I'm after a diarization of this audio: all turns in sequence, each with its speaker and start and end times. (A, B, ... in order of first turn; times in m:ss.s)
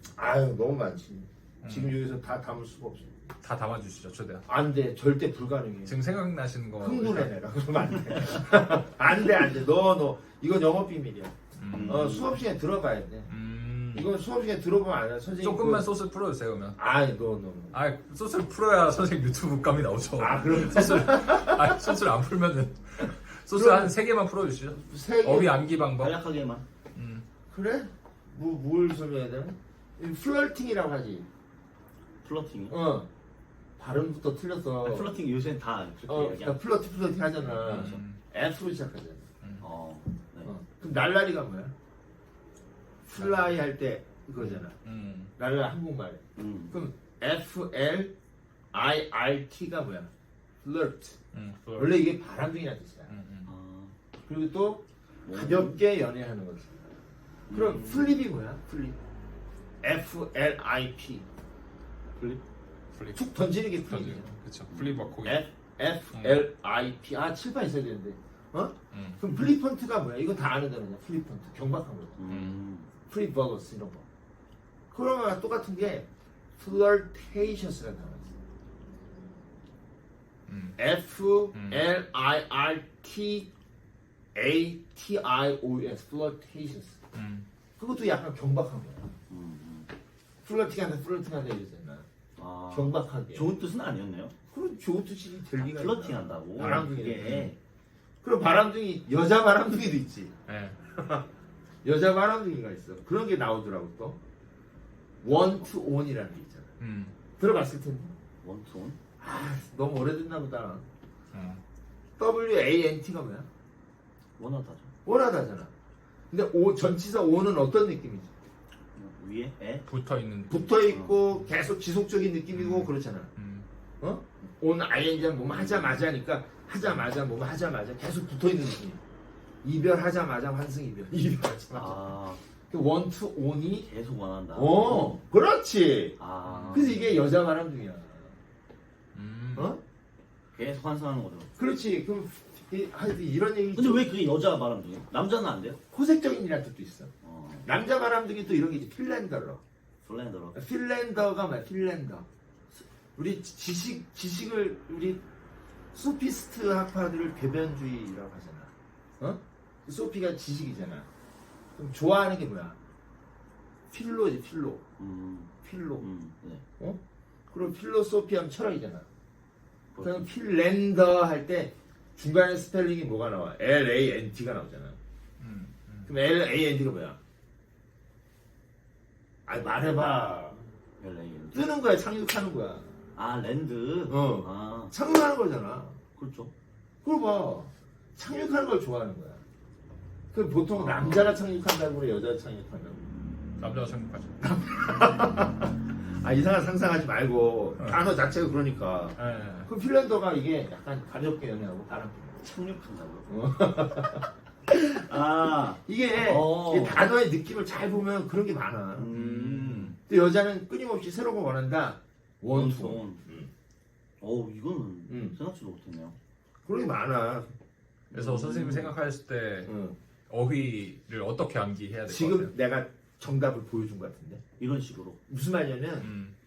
0:00.2-0:03.1 A
0:01.6-0:01.9 B
0:03.4-0:04.4 B
0:04.5-0:06.0 A
0:05.8-0:07.3 B
0:06.8-0:11.3 A
0:11.6-0:12.0 B
0:11.7-0:12.4 C
0:11.8-0:13.3 A
0:13.3-0:14.1 B
0:13.9-0:15.9 A
0:15.4-0:16.8 B
0:16.8-0:17.7 A
0:17.7-0:26.2 B
0:20.2-0:21.9 A
0:23.5-0:23.9 A
0:24.8-0:25.8 A
0:26.0-0:26.6 C
0:26.9-0:27.2 B
0:27.5-0:31.3 A
0:32.2-0:32.8 C
0:32.7-0:33.1 A
0:33.8-0:35.1 A
0:34.8-0:36.6 C
0:36.0-0:39.2 A
0:37.5-0:38.0 C
0:37.6-0:38.2 B
0:39.6-0:40.5 C
0:40.4-0:41.7 A
0:43.1-0:44.8 A
0:44.4-0:45.3 B
0:45.4-0:48.1 A
0:46.4-0:46.8 C
0:48.7-0:50.1 A
0:50.6-0:51.2 A
0:51.3-0:52.0 B
0:51.8-0:53.1 A
0:53.1-0:53.5 B
0:53.4-0:53.9 C
0:54.3-0:56.9 A
0:55.2-0:55.8 C
0:57.5-0:58.2 C
0:57.5-0:59.0 A
0:59.8-1:01.2 A
1:02.2-1:02.4 C
1:02.9-1:03.2 B
1:03.1-1:04.3 A
1:03.8-1:05.4 B
1:04.7-1:05.1 C
1:05.2-1:12.2 A
1:06.1-1:06.4 B
1:08.9-1:09.2 B
1:12.2-1:12.9 C
1:12.3-1:12.6 B
1:13.1-1:14.0 A
1:14.9-1:18.3 A
1:20.5-1:20.8 B
1:20.8-1:23.5 A
1:21.5-1:21.9 B
1:24.3-1:27.0 A
1:27.1-1:27.4 B
1:27.8-1:29.2 A
1:29.3-1:29.9 C
1:30.4-1:32.1 A
1:32.4-1:34.3 C
1:32.7-1:33.5 A
1:34.5-1:37.5 A
1:35.6-1:37.6 C
1:36.6-1:37.5 B
1:38.2-1:40.3 A
1:40.5-1:40.8 B
1:40.9-1:41.2 A
1:41.8-1:44.2 A
1:45.2-1:46.7 A
1:45.3-1:45.7 C
1:46.8-1:47.1 B
1:47.4-1:48.1 A
1:48.4-1:49.0 C
1:49.2-1:50.8 A
1:51.3-1:51.6 B
1:52.2-1:53.5 A
1:54.4-1:54.9 C
1:55.0-1:55.7 A
1:56.3-1:58.3 A
1:58.9-1:59.8 C
1:59.8-2:00.7 B
2:00.5-2:03.3 A
2:00.9-2:01.2 C
2:02.5-2:03.7 B
2:04.0-2:09.0 A
2:05.5-2:06.0 C
2:09.6-2:12.2 A
2:11.7-2:12.4 C
2:12.7-2:13.9 A
2:13.8-2:15.2 C
2:14.5-2:16.2 A
2:16.2-2:17.1 C
2:16.4-2:16.9 B
2:16.7-2:18.4 A
2:19.1-2:19.7 B
2:19.5-2:19.8 A
2:20.5-2:21.5 C
2:21.6-2:24.1 A
2:23.7-2:25.8 C
2:25.9-2:27.1 A
2:27.2-2:27.7 C
2:27.6-2:29.6 A
2:30.0-2:30.6 C
2:30.5-2:32.2 A
2:33.2-2:35.2 A
2:35.9-2:41.1 A
2:41.8-2:42.8 A
2:43.9-2:44.8 A
2:45.0-2:46.6 C
2:45.6-2:46.0 A
2:46.8-2:49.1 A
2:49.9-2:50.3 C
2:50.0-2:55.0 A
2:55.4-2:56.1 B
2:56.1-2:57.2 A
2:59.4-3:00.6 A
3:01.0-3:01.7 C
3:01.5-3:03.0 A
3:03.1-3:04.9 C
3:04.1-3:06.0 A
3:06.2-3:06.5 C
3:07.0-3:09.4 A
3:10.3-3:13.1 A
3:10.8-3:11.4 C
3:13.6-3:14.4 B
3:14.4-3:22.5 A
3:19.2-3:19.7 B
3:22.4-3:23.3 C
3:23.3-3:25.0 A
3:25.0-3:27.1 C
3:25.8-3:29.1 A
3:28.9-3:30.0 C
3:29.1-3:30.0 B
3:30.0-3:33.5 A
3:32.5-3:33.2 C
3:34.2-3:36.2 C
3:35.1-3:35.4 A
3:36.6-3:37.5 A
3:38.1-3:39.7 B
3:38.1-3:38.9 C
3:38.5-3:38.8 A
3:39.6-3:40.0 A
3:40.3-3:42.5 B
3:42.0-3:44.4 A
3:44.6-3:45.2 C
3:45.3-3:46.1 A
3:46.0-3:46.3 B